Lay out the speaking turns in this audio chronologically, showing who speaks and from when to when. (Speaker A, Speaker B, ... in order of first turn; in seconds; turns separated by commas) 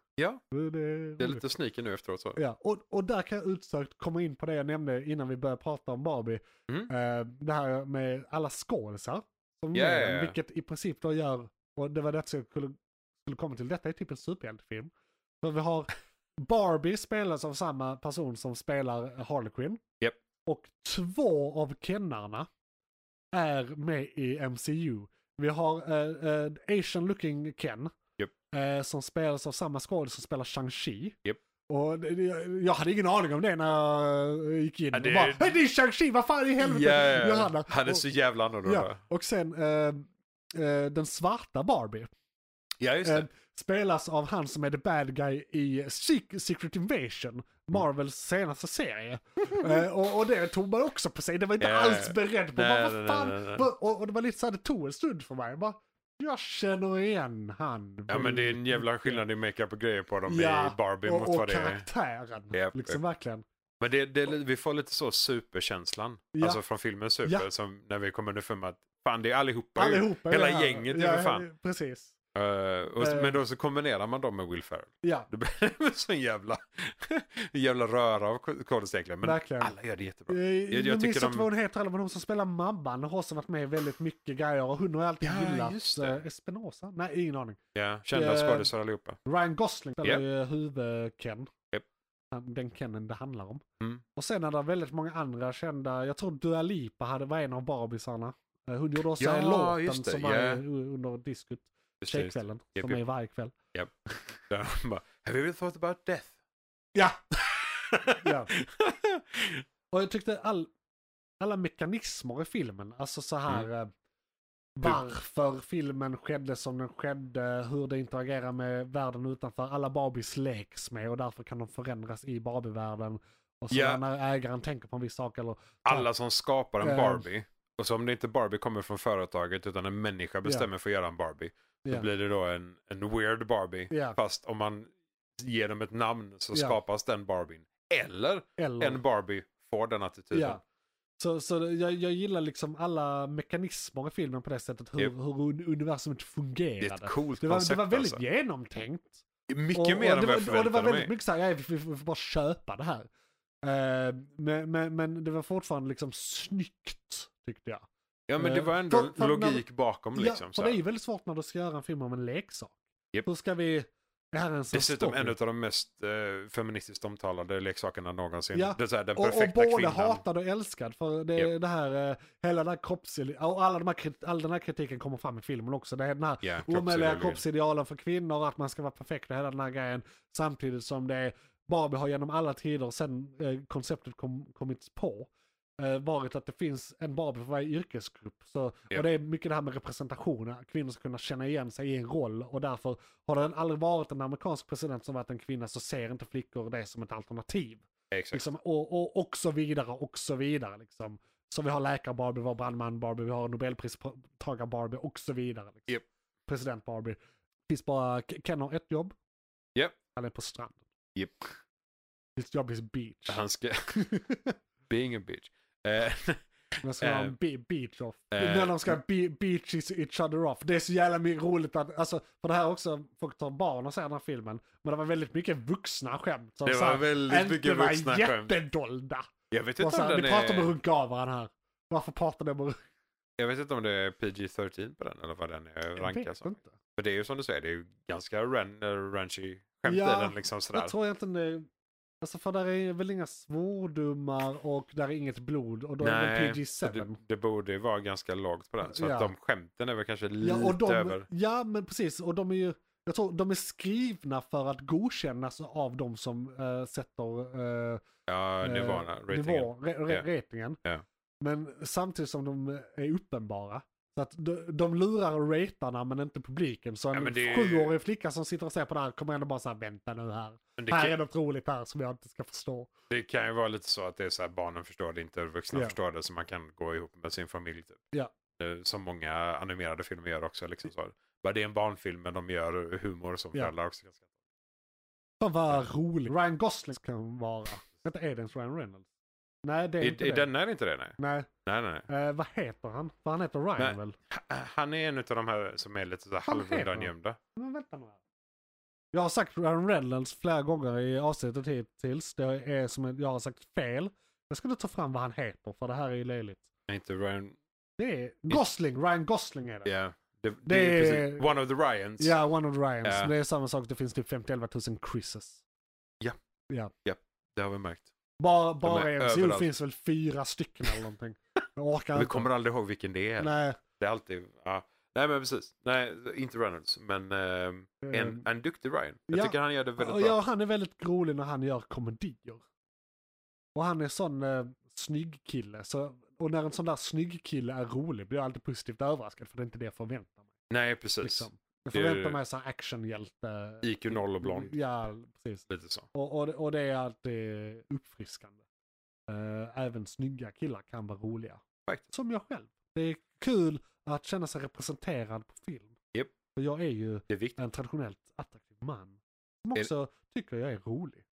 Speaker A: 0.2-0.4, Speaker B: 0.5-1.4, Speaker A: 1.2-2.4, Speaker B: 2.4-19.8, Speaker A: 9.7-10.3, Speaker B: 20.4-22.5, Speaker B: 23.3-27.9, Speaker B: 28.5-38.1, Speaker A: 34.9-35.6, Speaker A: 36.6-39.0, Speaker B: 38.6-42.1, Speaker A: 42.8-43.3, Speaker B: 43.0-59.2, Speaker A: 49.5-49.8, Speaker A: 51.6-53.7, Speaker A: 58.1-61.9, Speaker B: 60.2-63.4, Speaker A: 62.5-63.0, Speaker A: 63.8-71.5, Speaker B: 66.3-66.6, Speaker B: 69.8-72.1, Speaker A: 72.3-81.5, Speaker B: 73.0-73.4, Speaker B: 79.2-79.7, Speaker B: 80.3-87.6, Speaker A: 85.2-86.2, Speaker A: 87.7-89.2, Speaker B: 88.1-88.7, Speaker B: 89.2-91.5, Speaker B: 92.3-93.6, Speaker B: 94.1-103.5, Speaker A: 99.2-100.6, Speaker A: 102.0-103.0, Speaker A: 103.7-106.3, Speaker A: 107.3-109.6, Speaker B: 108.2-108.5, Speaker B: 109.9-110.7, Speaker B: 111.4-113.9, Speaker B: 114.8-126.1, Speaker A: 123.7-124.0, Speaker A: 125.8-140.6, Speaker B: 126.8-127.2, Speaker B: 133.9-134.2, Speaker B: 138.6-139.0, Speaker B: 140.3-140.6, Speaker B: 141.2-153.1, Speaker A: 146.8-148.2, Speaker A: 149.5-151.1, Speaker B: 153.6-157.9, Speaker A: 158.3-160.8, Speaker B: 158.4-159.6, Speaker B: 160.1-165.3, Speaker A: 164.7-170.2, Speaker B: 168.5-209.2, Speaker A: 176.4-177.4, Speaker A: 198.1-198.4, Speaker B: 210.1-210.9, Speaker A: 211.1-211.5, Speaker B: 212.4-214.6, Speaker A: 213.3-214.0, Speaker A: 214.9-216.4, Speaker B: 216.8-232.8, Speaker A: 217.0-217.3, Speaker A: 218.3-219.0, Speaker A: 226.6-228.5, Speaker A: 229.5-230.7, Speaker A: 233.4-240.9, Speaker B: 236.0-236.8, Speaker B: 239.8-241.7, Speaker B: 242.2-247.2, Speaker A: 246.0-251.3, Speaker B: 248.8-249.3, Speaker B: 250.4-258.1, Speaker A: 258.3-260.2, Speaker B: 258.6-260.8, Speaker B: 261.4-272.9, Speaker A: 267.1-267.9, Speaker A: 270.8-271.1, Speaker A: 273.1-278.0, Speaker A: 278.6-284.2, Speaker B: 285.4-289.1, Speaker B: 289.6-290.5, Speaker A: 290.0-292.1, Speaker B: 291.2-291.5, Speaker B: 292.1-294.1, Speaker A: 293.8-297.4, Speaker B: 296.4-298.2, Speaker B: 299.1-306.7, Speaker A: 306.9-307.6, Speaker B: 308.0-309.9, Speaker A: 309.9-312.4, Speaker B: 310.6-311.5, Speaker B: 312.2-315.6, Speaker A: 313.0-313.3, Speaker A: 317.0-318.1, Speaker B: 318.4-322.5, Speaker A: 318.8-319.7, Speaker A: 322.1-330.4, Speaker B: 323.4-323.8, Speaker B: 328.0-328.4, Speaker B: 329.3-332.6, Speaker B: 333.7-340.4, Speaker A: 340.7-342.4, Speaker B: 341.2-348.6, Speaker A: 343.8-344.7, Speaker A: 345.7-346.1, Speaker B: 349.3-355.9, Speaker B: 356.5-361.2, Speaker A: 357.3-357.6